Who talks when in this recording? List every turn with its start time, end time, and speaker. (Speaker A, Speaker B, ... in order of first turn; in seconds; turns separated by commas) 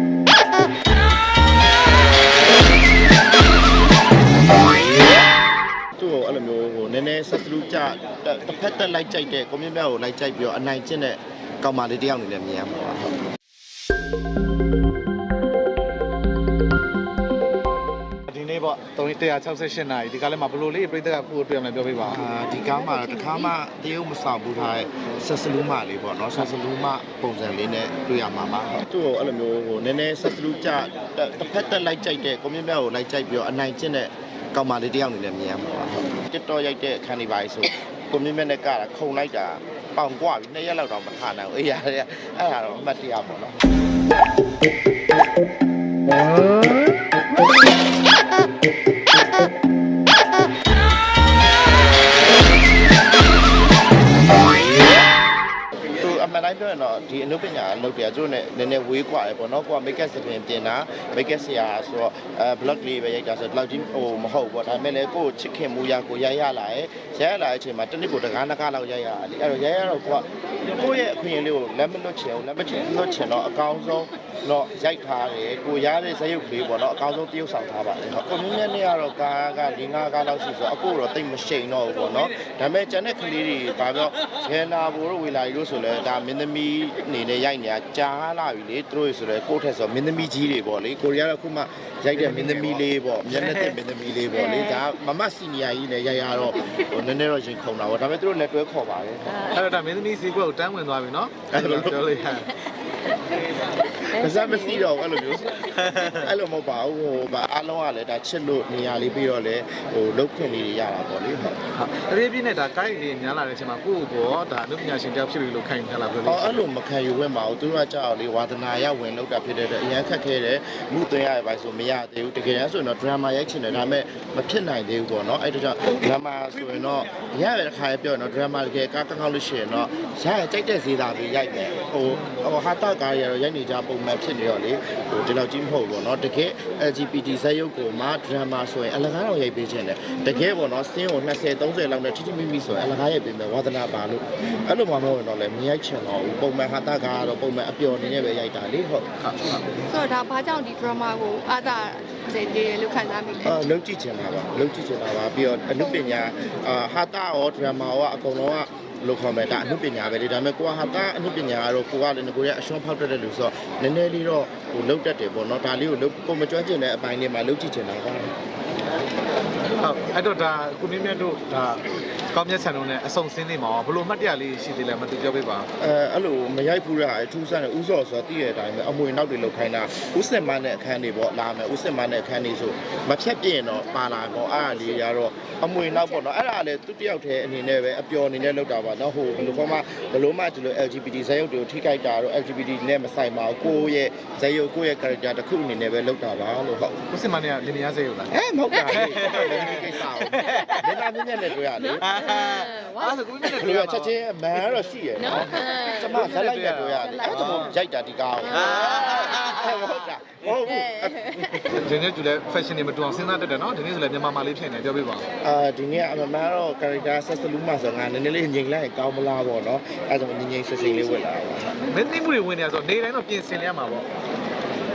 Speaker A: 6.0-13.2, Speaker B: 18.3-22.2, Speaker A: 22.0-43.5, Speaker A: 55.9-99.5, Speaker B: 92.1-92.9, Speaker B: 99.3-102.6, Speaker A: 101.5-102.0, Speaker A: 104.0-111.6, Speaker B: 111.7-116.6, Speaker A: 116.2-149.1, Speaker B: 149.2-149.8, Speaker C: 149.9-153.6, Speaker A: 153.4-168.3, Speaker B: 169.8-175.7, Speaker A: 175.8-197.0, Speaker B: 197.1-198.3, Speaker A: 198.3-202.3, Speaker B: 198.8-200.8, Speaker B: 202.0-204.1, Speaker A: 203.5-211.6, Speaker B: 205.3-207.8, Speaker B: 208.5-209.2, Speaker B: 211.5-215.3, Speaker A: 215.4-221.8, Speaker B: 221.8-224.1